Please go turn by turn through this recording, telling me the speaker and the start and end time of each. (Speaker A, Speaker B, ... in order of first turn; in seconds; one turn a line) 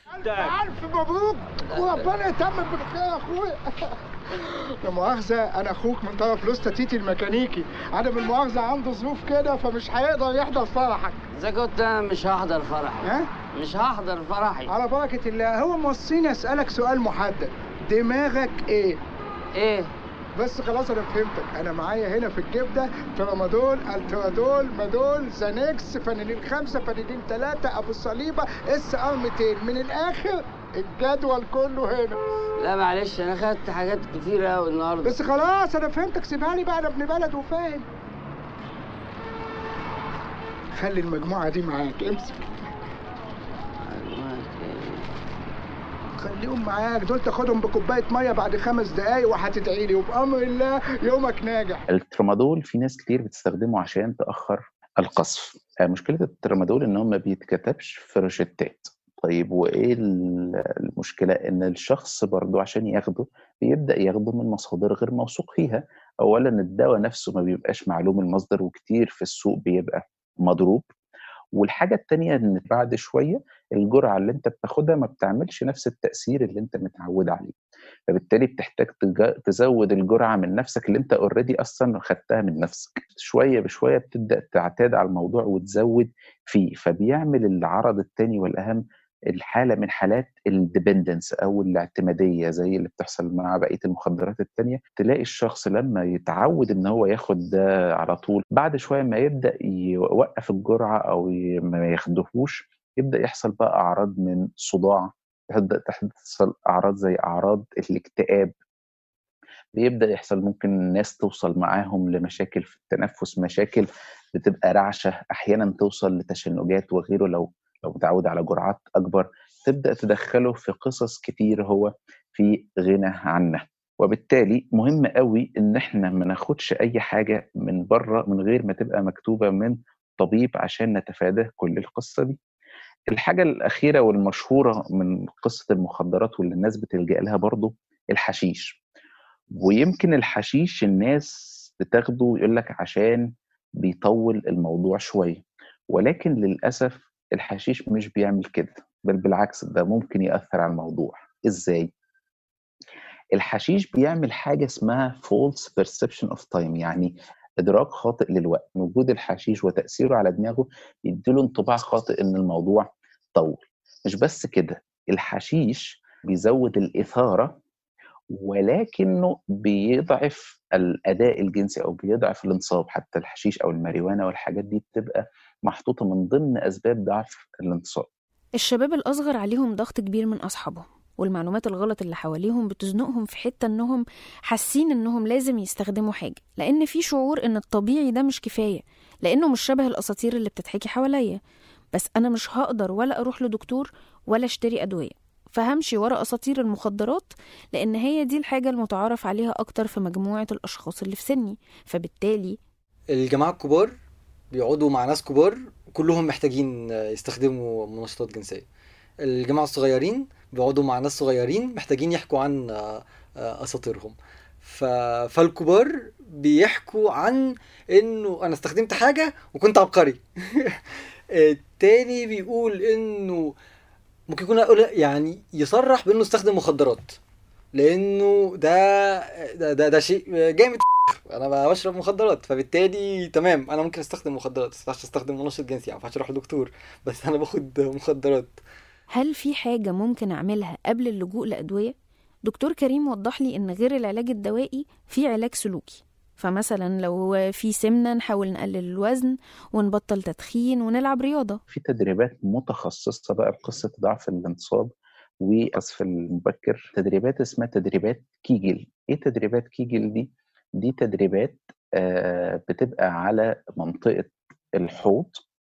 Speaker A: 0.2-11.2
Speaker B: 11.3-14.7
Speaker A: 13.0-13.3
Speaker A: 14.7-19.0
Speaker B: 19.6-19.9
Speaker A: 20.4-32.2
Speaker B: 32.6-35.1
Speaker A: 35.0-37.9
Speaker A: 40.7-42.5
Speaker B: 43.8-45.1
Speaker A: 46.2-51.9
Speaker C: 51.9-70.9
Speaker C: 71.5-77.5
Speaker C: 78.1-108.5
Speaker C: 109.8-132.4
Speaker C: 133.1-138.8
Speaker C: 139.6-143.3
Speaker C: 143.8-151.9
Speaker C: 153.3-167.6
Speaker C: 168.3-178.1
Speaker D: 178.6-191.4
Speaker D: 191.9-202.6
Speaker E: 203.1-203.9
Speaker E: 204.5-208.7
Speaker E: 209.2-220.8
Speaker E: 221.3-223.6
Speaker E: 224.3-227.2
Speaker E: 227.8-238.6
Speaker D: 239.1-241.9
Speaker D: 242.4-251.6
Speaker C: 251.7-254.9
Speaker C: 255.4-265.4